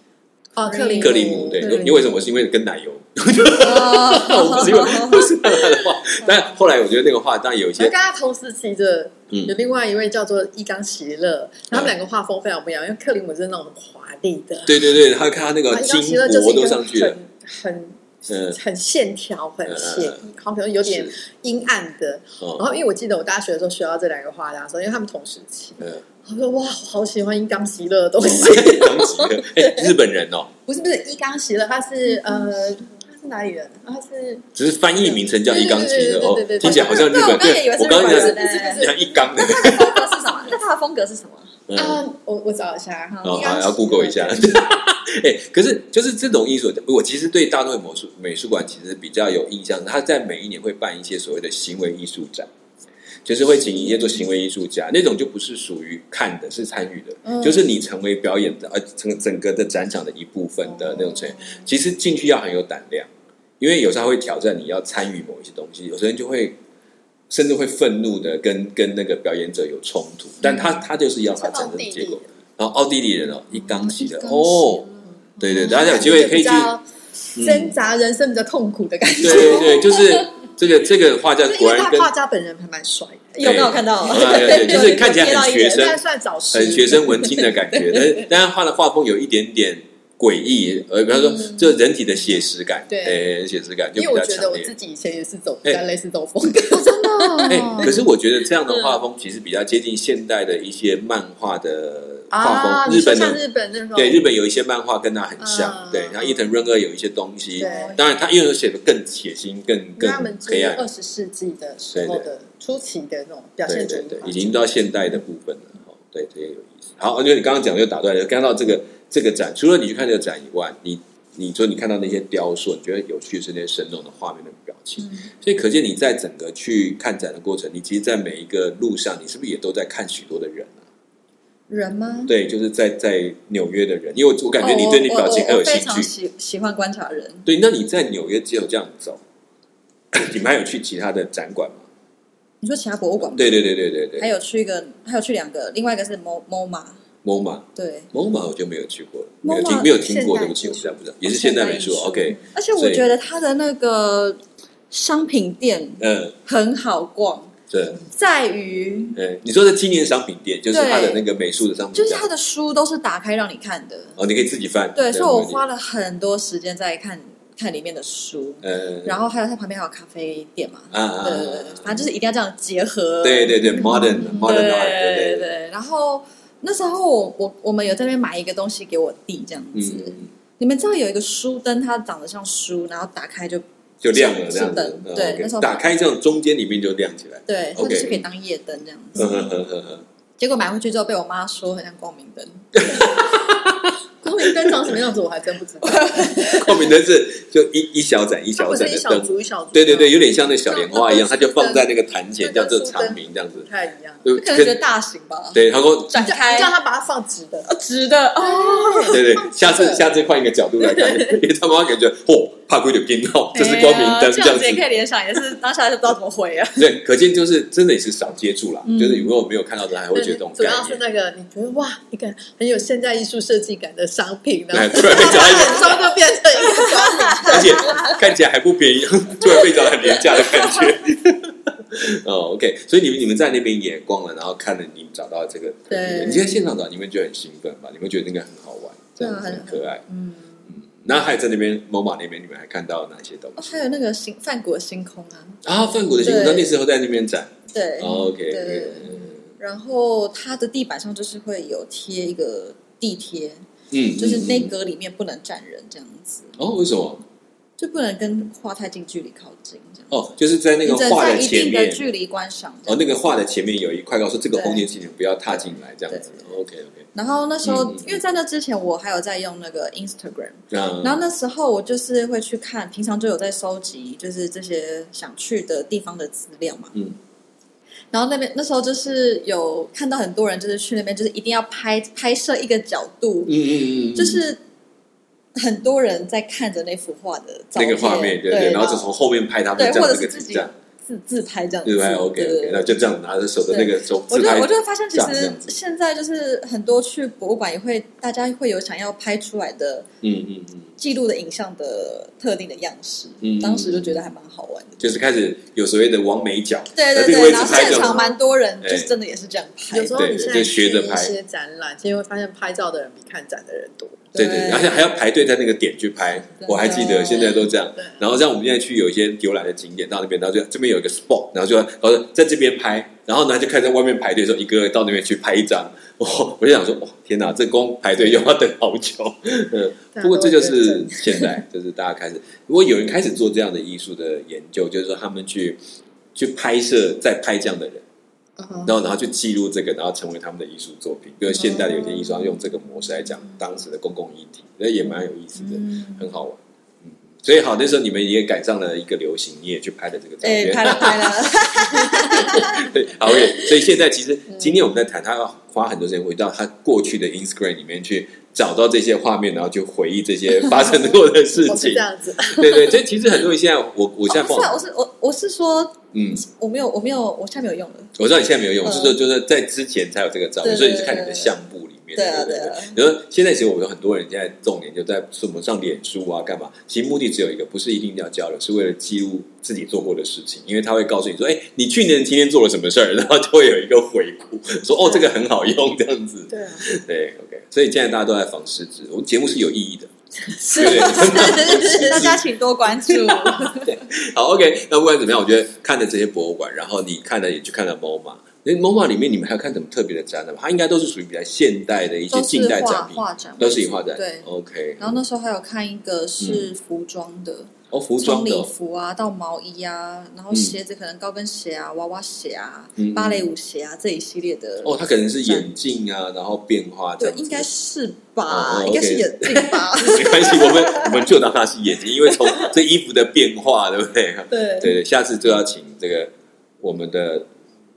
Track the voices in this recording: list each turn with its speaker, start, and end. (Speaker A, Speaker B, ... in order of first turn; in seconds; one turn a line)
Speaker A: 0.6-2.1
Speaker B: 0.7-2.0
Speaker C: 0.9-7.9
Speaker B: 3.5-5.8
Speaker A: 7.8-15.0
Speaker C: 14.6-17.2
Speaker A: 15.7-29.9
Speaker C: 18.3-18.6
Speaker C: 19.6-20.2
Speaker C: 20.8-21.1
Speaker C: 28.2-30.5
Speaker A: 30.7-34.5
Speaker C: 34.5-40.2
Speaker A: 35.0-39.3
Speaker B: 36.6-41.6
Speaker C: 41.7-42.0
Speaker A: 41.7-44.7
Speaker B: 43.1-43.6
Speaker C: 43.2-52.5
Speaker C: 53.2-66.6
Speaker C: 67.3-74.8
Speaker A: 71.3-72.2
Speaker B: 73.5-75.9
Speaker C: 75.4-76.7
Speaker A: 75.4-80.1
Speaker C: 77.3-77.7
Speaker C: 79.2-82.1
Speaker B: 79.5-80.0
Speaker A: 81.4-87.5
Speaker B: 83.3-85.9
Speaker C: 83.4-86.0
Speaker C: 86.5-94.7
Speaker B: 87.7-88.2
Speaker A: 92.9-93.3
Speaker A: 94.0-98.0
Speaker B: 96.7-97.9
Speaker C: 97.5-103.4
Speaker A: 102.3-104.3
Speaker C: 103.9-110.8
Speaker A: 105.4-106.5
Speaker A: 107.6-108.0
Speaker B: 107.6-108.0
Speaker A: 110.0-114.7
Speaker C: 111.9-112.3
Speaker C: 113.7-130.8
Speaker B: 125.0-125.3
Speaker B: 131.7-132.3
Speaker C: 132.3-136.1
Speaker B: 134.6-137.5
Speaker C: 137.4-139.2
Speaker C: 140.1-141.8
Speaker B: 142.6-147.0
Speaker C: 143.3-144.3
Speaker C: 147.2-153.0
Speaker B: 147.7-148.1
Speaker B: 149.4-150.0
Speaker A: 149.9-151.0
Speaker B: 151.2-159.2
Speaker C: 156.0-156.3
Speaker C: 157.7-158.0
Speaker C: 159.1-162.3
Speaker B: 160.7-161.2
Speaker B: 161.9-164.2
Speaker C: 164.2-165.6
Speaker B: 164.9-185.9
Speaker C: 168.6-169.2
Speaker C: 170.9-172.0
Speaker C: 173.2-175.5
Speaker C: 179.7-180.3
Speaker C: 184.0-188.2
Speaker B: 187.5-189.5
Speaker C: 189.2-190.0
Speaker B: 190.4-193.1
Speaker C: 192.8-193.9
Speaker A: 194.2-196.7
Speaker C: 194.5-195.0
Speaker B: 195.8-196.7
Speaker C: 196.4-203.7
Speaker A: 198.6-204.2
Speaker C: 204.2-204.8
Speaker B: 204.3-206.7
Speaker C: 205.5-206.1
Speaker A: 206.2-207.7
Speaker B: 207.7-209.2
Speaker A: 208.4-210.0
Speaker C: 209.1-214.8
Speaker A: 210.8-211.4
Speaker B: 213.5-216.9
Speaker C: 216.8-221.0
Speaker B: 218.8-219.3
Speaker A: 220.1-228.2
Speaker C: 224.7-226.0
Speaker B: 225.1-226.0
Speaker B: 226.6-228.1
Speaker C: 227.4-240.0
Speaker B: 235.9-236.5
Speaker B: 239.2-240.7
Speaker C: 240.9-243.8
Speaker B: 243.6-245.6
Speaker C: 245.6-249.4
Speaker B: 246.2-246.7
Speaker B: 247.7-253.6
Speaker C: 253.9-254.7
Speaker B: 254.2-256.6
Speaker C: 256.6-257.2
Speaker B: 257.8-260.1
Speaker C: 260.1-262.0
Speaker B: 260.8-263.1
Speaker C: 262.9-267.1
Speaker B: 264.6-264.9
Speaker B: 266.1-266.5
Speaker B: 267.1-276.9
Speaker C: 267.6-268.1
Speaker C: 270.7-271.2
Speaker B: 278.1-284.6
Speaker C: 283.5-284.4
Speaker B: 285.5-289.1
Speaker C: 287.8-290.7
Speaker B: 289.8-293.0
Speaker C: 291.8-295.7
Speaker B: 293.7-300.1
Speaker C: 300.2-300.9
Speaker B: 301.0-305.0
Speaker C: 303.4-304.2
Speaker C: 305.0-308.2
Speaker B: 306.9-310.3
Speaker A: 307.6-308.3
Speaker C: 308.8-309.1
Speaker A: 309.9-314.3
Speaker C: 310.1-311.3
Speaker B: 314.3-315.1
Speaker C: 314.3-335.8
Speaker B: 316.6-317.7
Speaker A: 330.1-331.6
Speaker C: 336.3-338.0
Speaker A: 338.6-338.9
Speaker C: 338.8-364.8
Speaker A: 341.9-342.2
Speaker B: 345.6-346.3
Speaker B: 350.4-352.9
Speaker A: 361.6-363.0
Speaker B: 364.2-368.1
Speaker C: 366.1-366.4
Speaker C: 368.1-390.1
Speaker B: 368.8-369.1
Speaker B: 370.6-371.5
Speaker B: 372.1-372.9
Speaker A: 386.5-386.9
Speaker A: 390.5-392.2
Speaker B: 390.7-394.0
Speaker C: 390.7-392.4
Speaker C: 393.1-405.2
Speaker B: 402.3-404.4
Speaker B: 405.0-415.7
Speaker C: 406.4-406.7
Speaker C: 407.9-408.7
Speaker C: 413.0-413.5
Speaker C: 414.8-417.7
Speaker B: 417.2-421.3
Speaker C: 418.5-427.5
Speaker B: 422.2-422.7
Speaker B: 424.5-424.9